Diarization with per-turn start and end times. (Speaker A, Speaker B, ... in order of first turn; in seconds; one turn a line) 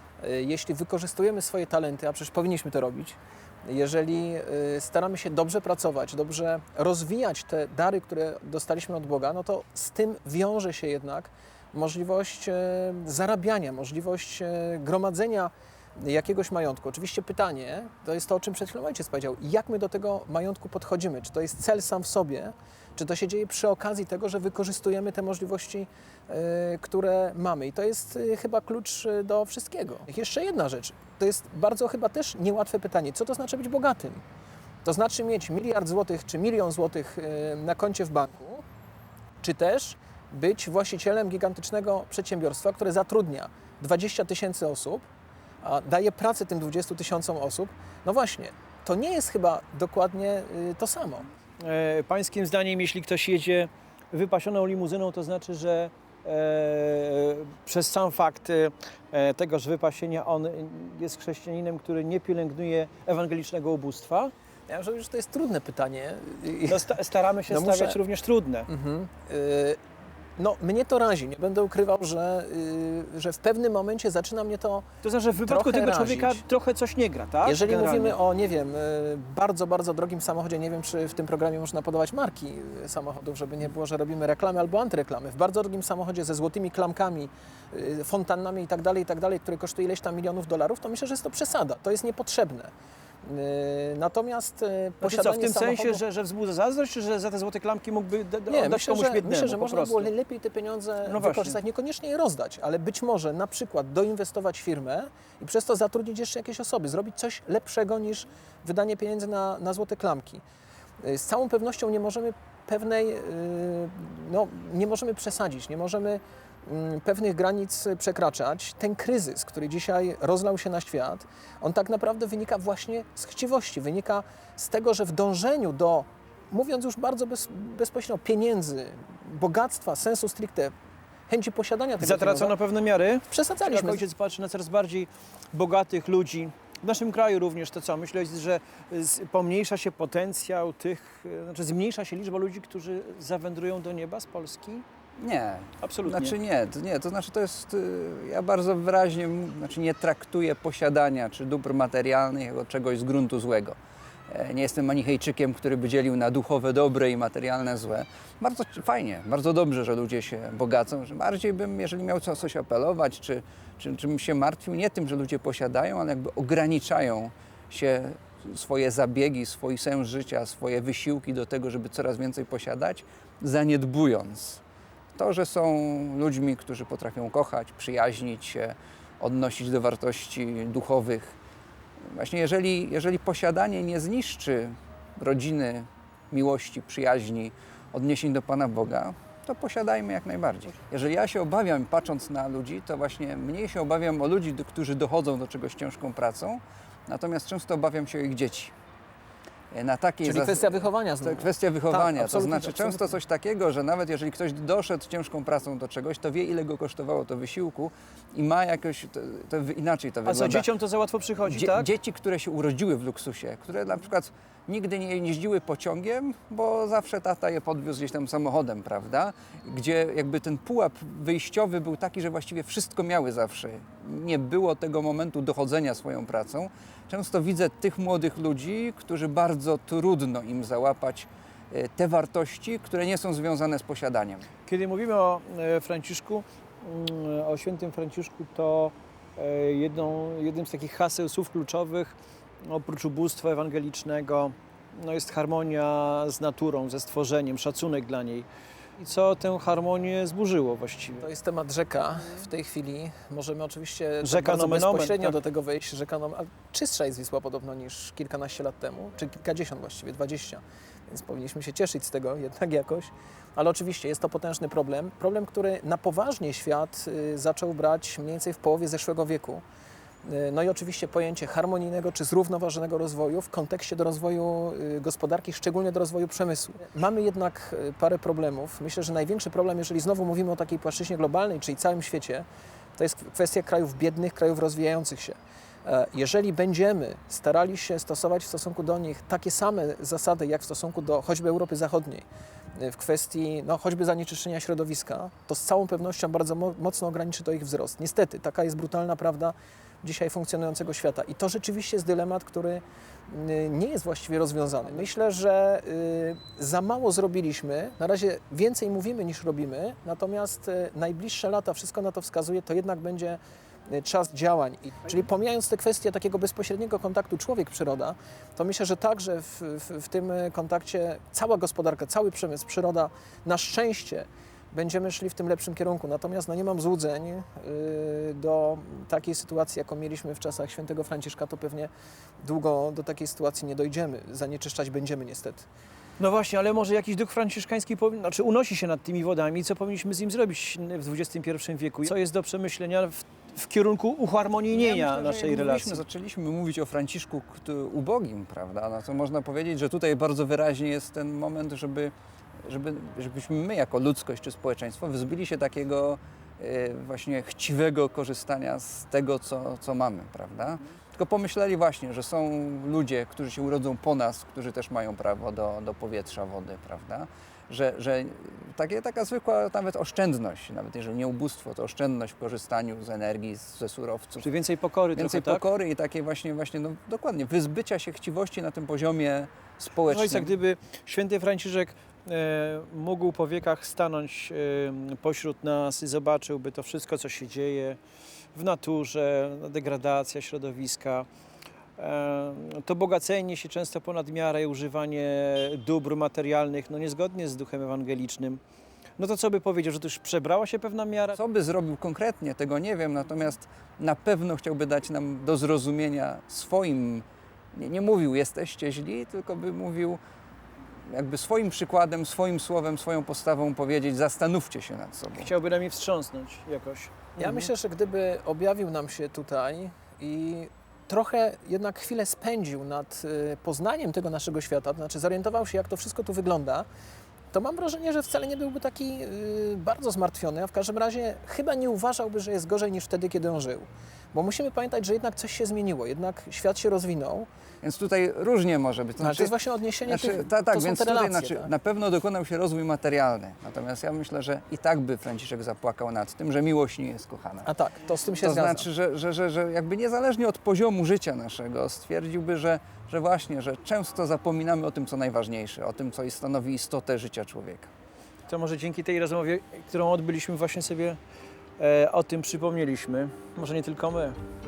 Speaker A: 0.2-34.2
Speaker A: 34.8-38.6
Speaker A: 39.4-45.1
Speaker A: 45.6-51.3
Speaker B: 51.6-64.3
Speaker A: 64.7-68.0
Speaker B: 66.7-68.7
Speaker A: 68.7-69.8
Speaker A: 70.4-76.5
Speaker B: 75.0-78.2
Speaker A: 77.4-92.7
Speaker A: 93.2-96.0
Speaker B: 95.0-100.1
Speaker A: 98.5-110.4
Speaker B: 101.1-101.6
Speaker A: 111.0-130.7
Speaker A: 131.3-132.6
Speaker B: 132.0-144.8
Speaker A: 133.3-134.1
Speaker C: 145.2-153.8
Speaker B: 145.8-146.3
Speaker C: 154.3-174.6
Speaker C: 175.2-181.4
Speaker C: 182.1-198.7
Speaker C: 199.7-210.7
Speaker A: 200.2-203.2
Speaker B: 210.2-211.9
Speaker C: 211.4-234.5
Speaker B: 234.7-248.5
Speaker B: 249.0-251.2
Speaker A: 251.2-269.6
Speaker B: 254.2-255.4
Speaker A: 270.2-335.7
Speaker B: 336.2-346.0
Speaker C: 344.7-352.1
Speaker C: 352.6-374.5
Speaker B: 374.4-375.6
Speaker C: 375.1-380.6
Speaker B: 380.0-388.0
Speaker B: 388.5-391.3
Speaker B: 392.0-398.6
Speaker B: 399.2-401.4
Speaker C: 401.4-410.2
Speaker C: 411.1-415.5
Speaker B: 415.3-417.7
Speaker A: 417.4-426.9
Speaker A: 427.5-437.5
Speaker C: 437.8-447.7
Speaker A: 439.2-441.7
Speaker A: 447.6-448.9
Speaker C: 448.4-457.9
Speaker B: 458.5-461.2
Speaker B: 461.8-464.4